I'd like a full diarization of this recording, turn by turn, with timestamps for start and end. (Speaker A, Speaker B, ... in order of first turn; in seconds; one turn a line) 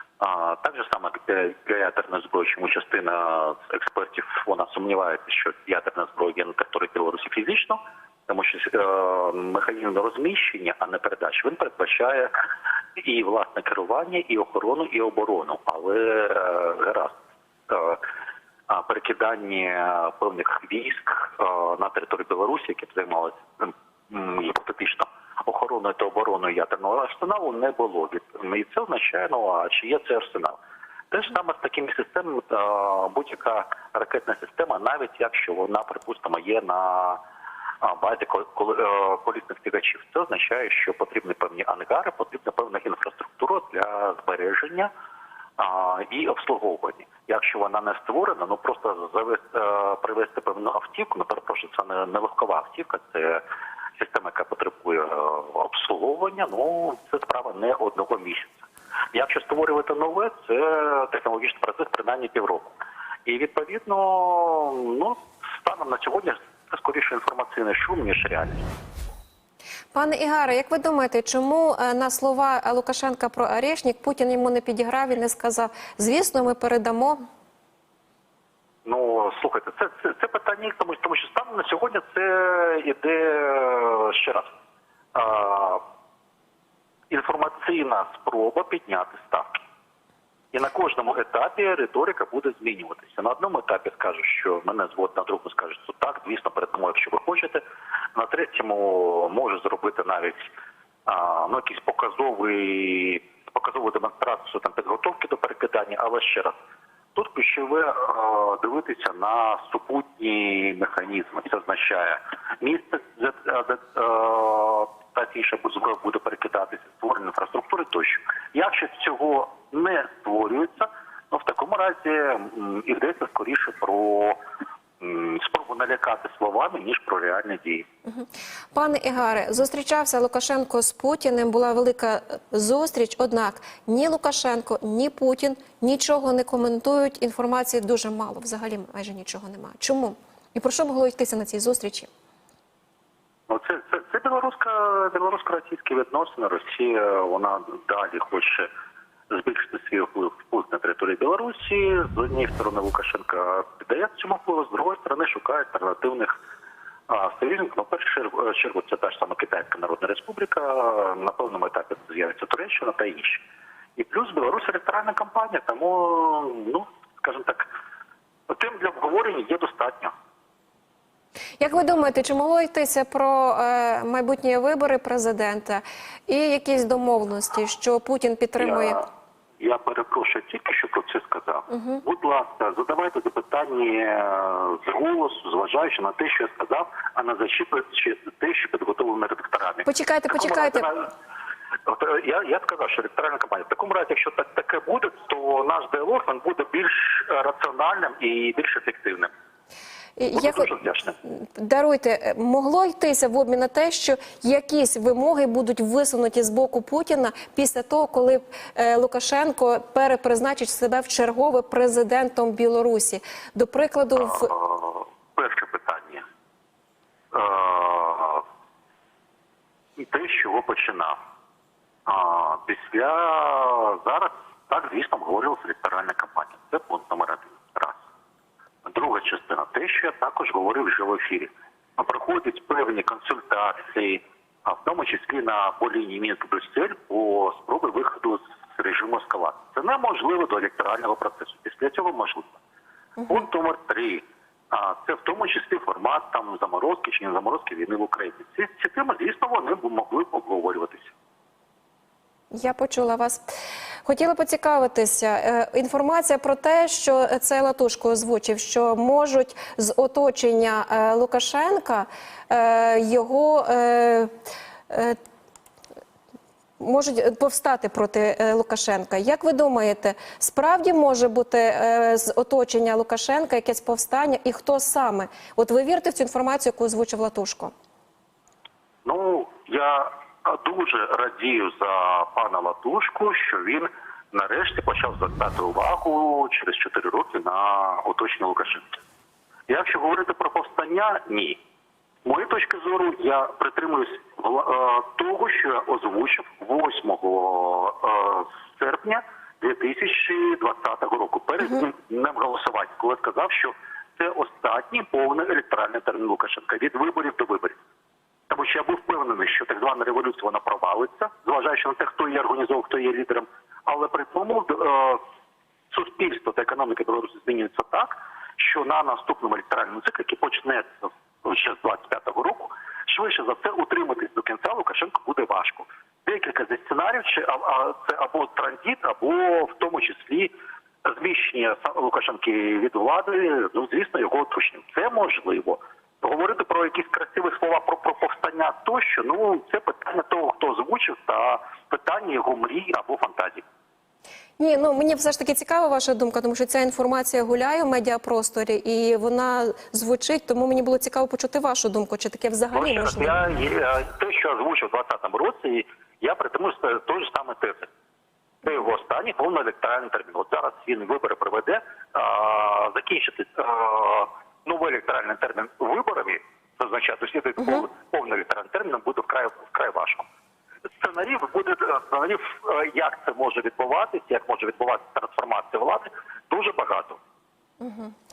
Speaker A: 0.2-12.4
Speaker A: 13.0-17.2
Speaker A: 17.7-18.0
Speaker A: 18.7-30.6
Speaker A: 31.1-37.2
Speaker A: 37.8-44.9
Speaker A: 45.6-53.4
Speaker A: 54.0-62.7
Speaker A: 63.3-68.7
Speaker B: 69.9-77.2
Speaker A: 78.8-84.5
Speaker A: 85.2-85.8
Speaker A: 87.1-89.6
Speaker A: 90.5-97.6
Speaker A: 98.2-100.5
Speaker A: 101.1-106.6
Speaker A: 107.2-124.4
Speaker A: 125.0-127.9
Speaker B: 128.1-142.1
Speaker A: 143.5-148.7
Speaker A: 149.3-156.4
Speaker A: 157.1-163.4
Speaker A: 164.0-167.7
Speaker A: 168.5-170.1
Speaker B: 171.6-179.0
Speaker A: 178.6-179.1
Speaker A: 179.6-191.1
Speaker B: 181.7-182.0
Speaker B: 189.8-190.9
Speaker A: 191.9-199.3
Speaker B: 200.2-200.7
Speaker A: 200.3-201.2
Speaker B: 201.3-214.5
Speaker A: 214.2-216.2
Speaker A: 217.3-218.4
Speaker A: 220.0-221.2
Speaker A: 222.1-228.0
Speaker A: 228.8-242.6
Speaker A: 243.3-251.1
Speaker B: 252.5-253.4
Speaker B: 254.1-264.3
Speaker B: 264.9-265.2
Speaker B: 266.8-277.7
Speaker A: 279.1-289.0
Speaker A: 289.7-291.6
Speaker A: 292.2-307.8
Speaker A: 308.5-315.2
Speaker A: 315.9-330.5
Speaker A: 331.1-343.6
Speaker B: 344.6-353.4
Speaker A: 352.7-357.9
Speaker A: 358.6-370.2
Speaker A: 371.0-377.2
Speaker B: 377.8-378.1